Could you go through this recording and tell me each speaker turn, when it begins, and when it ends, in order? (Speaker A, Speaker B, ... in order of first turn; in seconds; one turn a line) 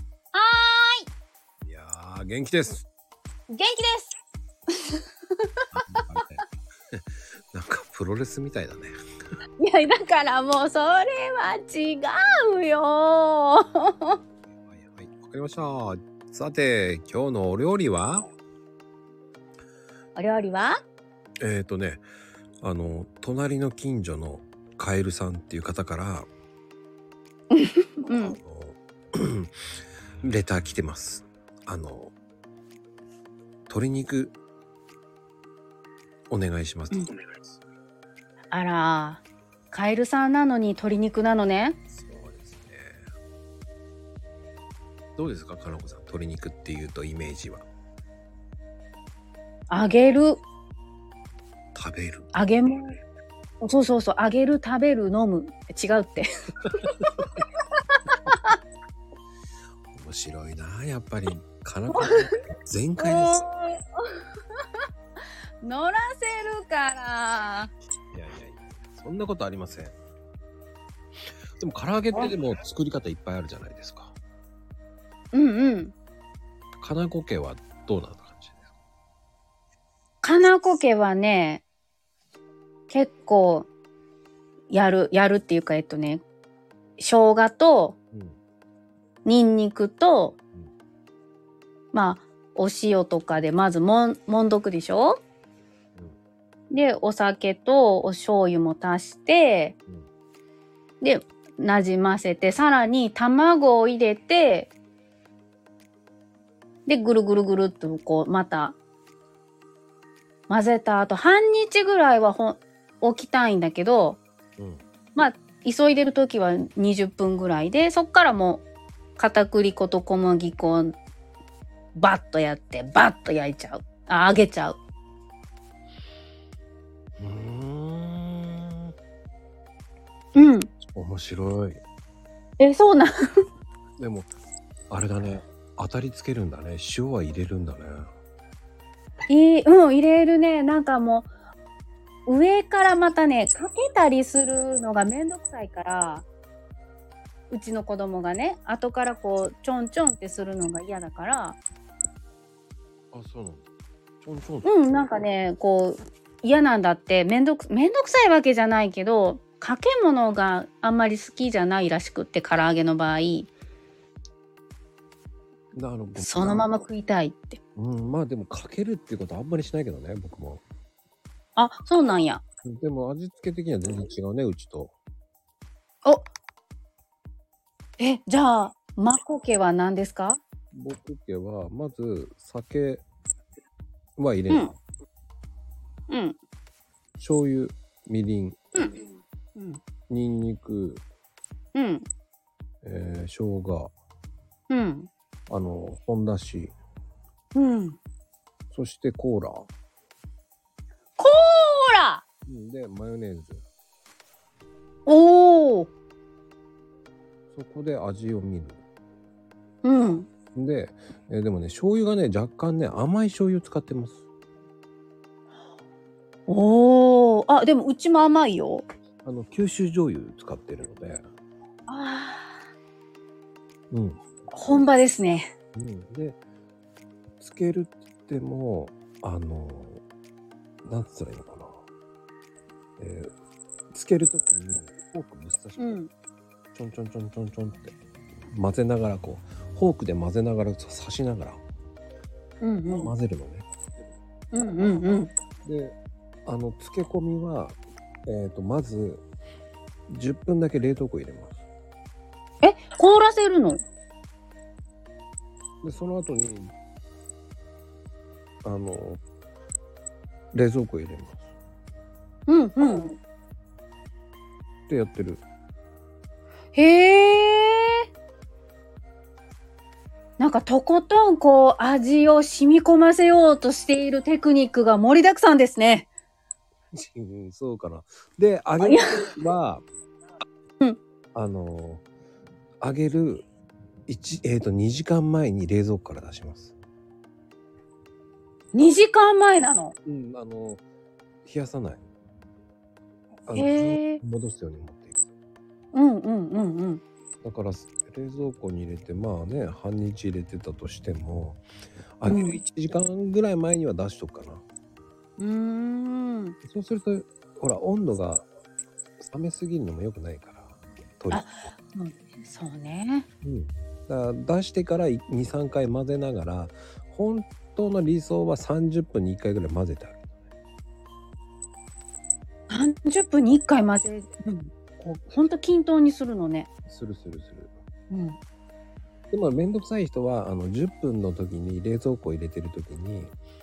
Speaker A: 0.3-1.1
Speaker B: 1.6-2.9
Speaker A: 3.5-4.2
Speaker A: 4.8-6.0
Speaker B: 5.7-8.9
Speaker A: 9.6-14.2
Speaker B: 14.5-18.3
Speaker A: 20.1-20.8
Speaker B: 21.4-22.1
Speaker B: 22.6-26.3
Speaker A: 27.5-28.4
Speaker B: 28.1-29.5
Speaker B: 30.2-32.1
Speaker B: 33.7-34.4
Speaker B: 36.3-37.1
Speaker A: 38.5-41.8
Speaker B: 41.9-43.0
Speaker B: 45.2-47.7
Speaker A: 49.7-50.4
Speaker B: 51.7-52.8
Speaker A: 52.3-53.0
Speaker A: 53.6-57.0
Speaker A: 58.1-58.5
Speaker B: 59.9-63.5
Speaker A: 61.9-62.3
Speaker A: 63.0-64.6
Speaker A: 65.6-67.7
Speaker B: 68.1-70.0
Speaker B: 71.6-74.2
Speaker A: 75.3-75.9
Speaker B: 76.8-78.7
Speaker A: 80.2-81.6
Speaker A: 82.9-83.7
Speaker A: 84.7-86.2
Speaker A: 87.0-88.0
Speaker B: 88.1-88.4
Speaker A: 89.2-90.4
Speaker A: 91.9-95.2
Speaker A: 96.7-99.8
Speaker A: 101.0-104.7
Speaker A: 106.9-108.8
Speaker A: 110.5-114.2
Speaker B: 114.6-114.8
Speaker A: 115.2-118.7
Speaker A: 119.2-121.0
Speaker A: 122.0-124.8
Speaker B: 127.2-128.9
Speaker A: 130.3-130.7
Speaker B: 130.9-131.8
Speaker A: 132.6-133.1
Speaker B: 134.0-134.3
Speaker B: 134.9-138.1
Speaker A: 139.3-141.3
Speaker A: 142.3-146.2
Speaker A: 147.5-151.6
Speaker B: 153.1-153.7
Speaker B: 154.2-155.1
Speaker A: 154.6-163.5
Speaker B: 165.8-166.7
Speaker A: 166.2-167.6
Speaker B: 167.8-170.6
Speaker A: 171.6-172.4
Speaker B: 172.6-175.0
Speaker A: 178.0-180.4
Speaker B: 180.7-183.0
Speaker B: 184.2-184.7
Speaker A: 186.1-186.4
Speaker B: 187.2-188.9
Speaker A: 188.8-189.0
Speaker A: 189.6-189.8
Speaker B: 190.1-191.0
Speaker A: 191.8-192.1
Speaker B: 192.8-193.9
Speaker A: 194.7-195.1
Speaker B: 195.5-196.8
Speaker A: 197.6-198.0
Speaker B: 198.7-199.7
Speaker A: 201.2-202.2
Speaker B: 202.5-203.7
Speaker A: 205.1-205.9
Speaker B: 207.5-208.8
Speaker A: 209.8-210.3
Speaker B: 210.5-214.2
Speaker A: 216.5-218.8
Speaker B: 219.2-221.3
Speaker A: 221.9-222.6
Speaker B: 223.9-224.2
Speaker A: 224.5-225.5
Speaker B: 225.8-226.4
Speaker B: 227.4-230.0
Speaker B: 230.9-231.7
Speaker B: 233.0-233.3
Speaker B: 233.9-236.0
Speaker A: 235.8-236.1
Speaker B: 236.7-237.9
Speaker B: 238.5-241.6
Speaker A: 242.6-243.1
Speaker B: 242.9-243.7
Speaker A: 244.5-245.3
Speaker B: 245.7-245.9
Speaker B: 246.5-249.2
Speaker B: 250.1-251.6
Speaker A: 252.6-253.8
Speaker B: 255.8-256.7
Speaker B: 258.6-259.2
Speaker B: 260.5-261.4
Speaker A: 262.5-263.2
Speaker B: 264.9-265.4
Speaker A: 266.7-268.0
Speaker A: 270.4-276.1
Speaker B: 276.9-279.9
Speaker A: 278.8-279.3
Speaker B: 281.4-282.1
Speaker B: 282.8-283.5
Speaker B: 284.1-286.8
Speaker A: 288.7-290.0
Speaker B: 290.1-290.8
Speaker B: 291.4-292.0
Speaker B: 293.5-295.3
Speaker A: 293.5-294.2
Speaker A: 295.9-297.0
Speaker B: 297.4-301.6
Speaker B: 302.2-304.6
Speaker A: 302.3-302.6
Speaker A: 305.4-306.6
Speaker B: 306.6-308.5
Speaker B: 309.2-311.5
Speaker A: 311.3-313.3
Speaker B: 313.4-320.4
Speaker A: 322.7-326.7
Speaker B: 326.9-327.7
Speaker A: 328.1-328.4
Speaker B: 329.3-333.4